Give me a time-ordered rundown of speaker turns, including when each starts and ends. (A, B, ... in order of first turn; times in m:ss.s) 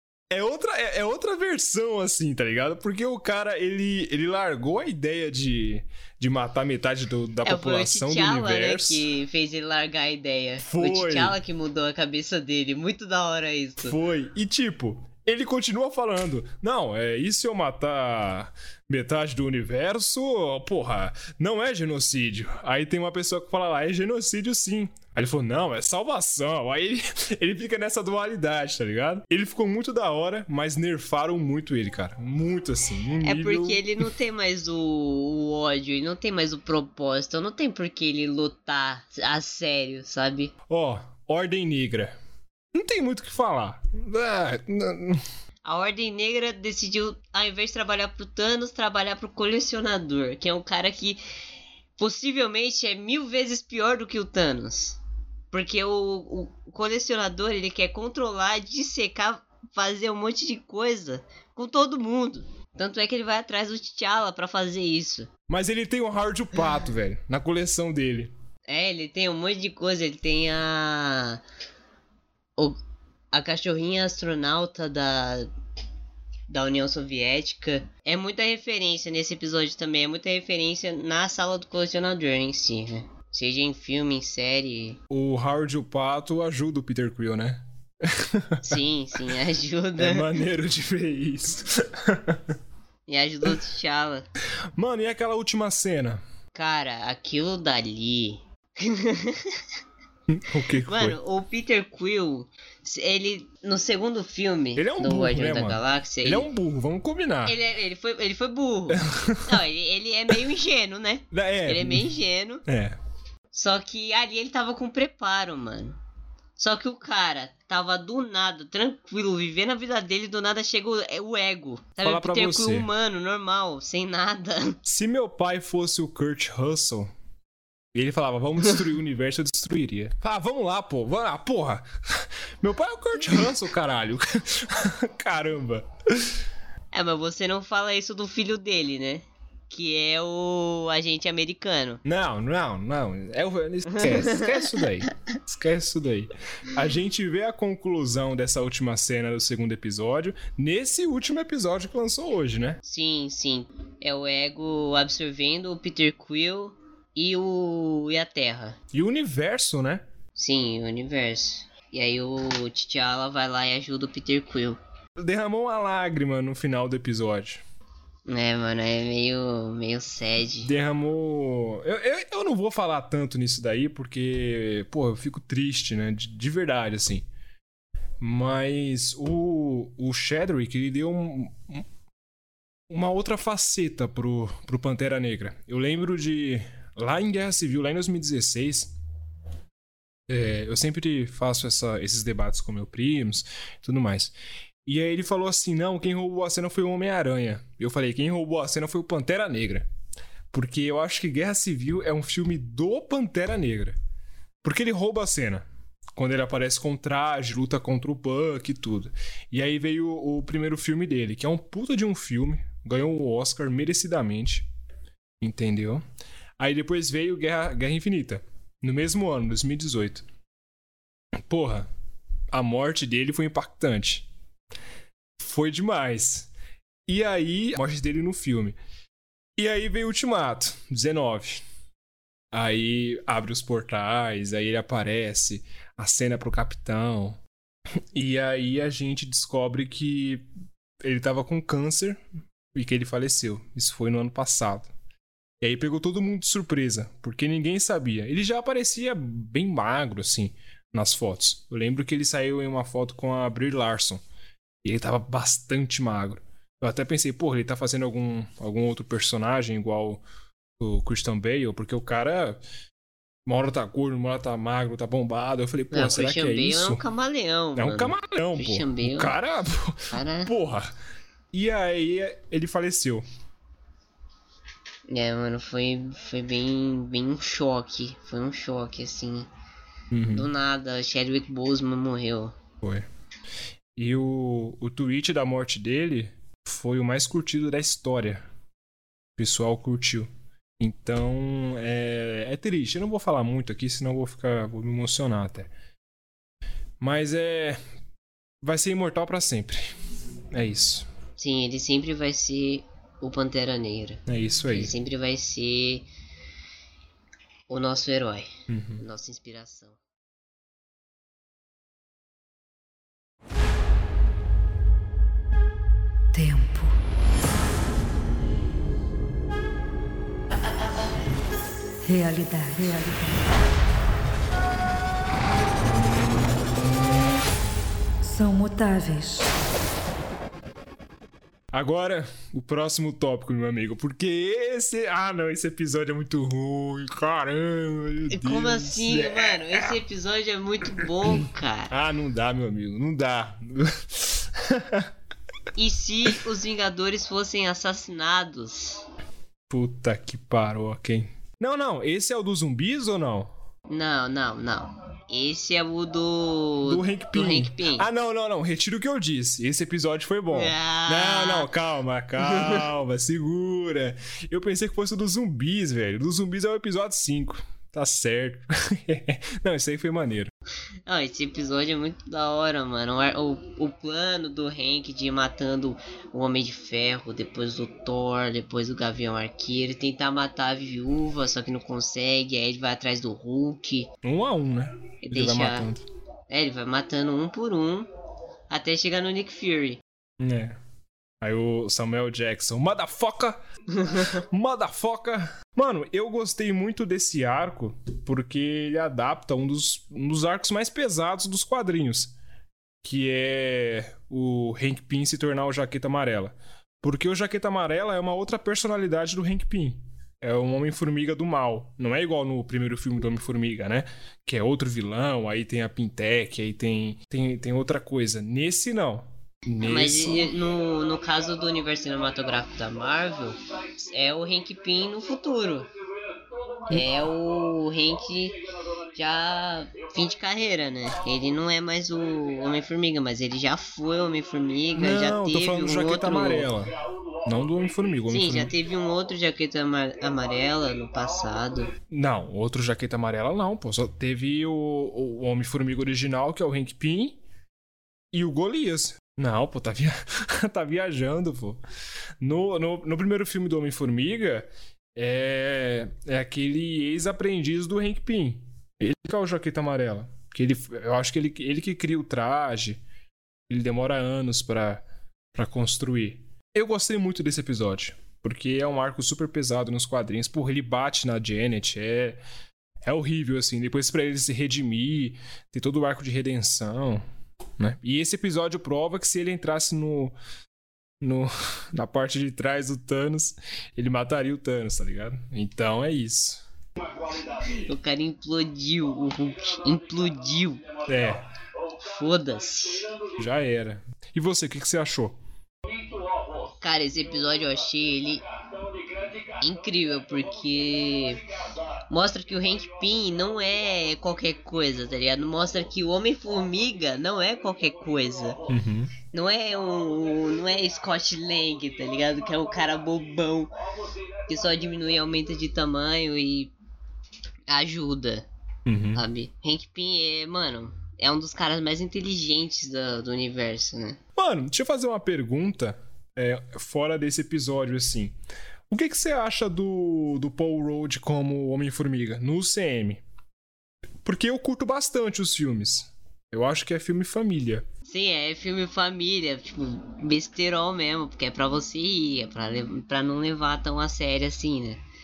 0:00.3-0:09.0 A
0:07.4-0:14.0 B
0:10.6-0:11.4 A
0:13.8-0:34.1 A
0:33.2-0:40.5 B
0:40.7-0:42.2 A
0:42.7-0:45.2 A
0:45.6-0:51.2 B
0:52.0-0:55.0 B
0:55.5-1:05.3 B
1:05.5-1:08.3 A
1:08.7-1:11.4 B
1:13.3-1:15.5 B
1:16.5-1:25.0 B
1:25.1-1:28.8 A
1:28.6-1:30.3 B
1:30.0-1:32.5 A
1:33.1-1:34.3 B
1:34.8-1:36.2 A
1:36.5-1:39.6 B
1:40.3-1:41.2 A
1:40.9-1:46.5 B
1:44.8-1:47.6 A
1:47.5-1:52.6 B
1:48.9-1:49.5 A
1:51.3-1:52.1 A
1:52.7-1:53.0 A
1:53.5-1:56.0 B
1:56.6-2:04.8 B
2:02.0-2:02.9 A
2:04.9-2:07.1 A
2:07.9-2:16.4 A
2:16.9-2:22.0 B
2:22.0-2:32.8 A
2:24.0-2:24.8 B
2:32.8-2:38.8 B
2:38.9-2:40.0 A
2:40.4-2:44.8 B
2:45.2-2:47.6 A
2:48.3-2:50.7 B
2:50.6-2:57.2 A
2:58.2-3:01.8 A
3:02.9-3:08.9 A
3:10.3-3:14.3 A
3:14.9-3:19.9 A
3:20.5-3:24.0 A
3:24.6-3:34.7 A
3:35.4-3:36.0 A
3:36.6-3:40.2 A
3:41.5-3:41.9 A
3:42.5-3:44.3 A
3:45.4-3:46.5 A
3:47.1-3:48.8 A
3:49.6-3:51.6 A
3:52.5-3:57.4 A
3:58.1-4:00.5 A
4:01.0-4:02.2 A
4:02.8-4:04.9 A
4:05.6-4:14.2 A
4:14.8-4:20.2 A
4:20.8-4:22.6 A
4:23.5-4:27.0 A
4:25.9-4:29.4 B
4:27.8-4:30.9 A
4:30.1-4:30.5 B
4:31.5-4:33.3 A
4:35.1-4:39.5 B
4:40.1-4:40.5 A
4:40.3-4:42.6 B
4:42.8-4:43.1 A
4:44.0-4:48.5 A
4:49.4-4:55.7 A
4:57.0-4:57.8 A
4:58.6-4:59.9 A
5:00.5-5:01.1 A
5:01.4-5:06.1 B
5:04.3-5:04.9 A
5:07.7-5:10.0 B
5:08.7-5:09.0 A
5:16.3-5:17.0 C
5:22.0-5:23.4 C
5:28.2-5:29.5 C
5:31.7-5:40.0 A
5:38.3-5:41.9 B
5:41.9-5:45.1 A
5:45.8-5:49.0 B
5:49.7-5:53.5 A
5:53.9-5:58.1 B
5:56.8-6:10.5 A
6:00.5-6:01.7 B
6:02.5-6:02.8 B
6:11.1-6:24.1 B
6:24.2-6:26.0 A
6:25.2-6:25.9 B
6:26.5-6:28.1 B
6:28.7-6:30.0 B
6:30.4-6:30.8 A
6:31.4-6:33.6 A
6:34.0-6:34.2 B
6:34.2-6:42.3 A
6:43.0-7:00.5 A
6:59.8-7:05.9 B
7:06.9-7:08.6 B
7:09.1-7:16.7 B
7:15.0-7:16.9 A
7:17.4-7:18.7 A
7:18.3-7:21.9 B
7:22.1-7:27.4 A
7:28.3-7:31.8 A
7:32.4-7:43.0 A
7:43.7-7:52.4 A
7:53.0-7:57.2 A
7:57.8-8:00.4 A
8:01.2-8:06.6 A
8:07.6-8:11.0 B
8:11.1-8:11.4 A
8:12.0-8:13.1 B
8:13.4-8:15.4 A
8:16.8-8:18.4 B
8:19.6-8:21.5 B
8:22.1-8:28.6 B
8:28.7-8:29.1 A
8:29.3-8:33.7 B
8:34.5-8:36.7 B
8:37.7-8:38.5 B
8:38.9-8:39.2 A
8:39.2-8:44.2 B
8:44.4-8:48.4 A
8:48.9-8:53.2 A
8:54.2-8:57.9 A
8:58.1-9:05.0 B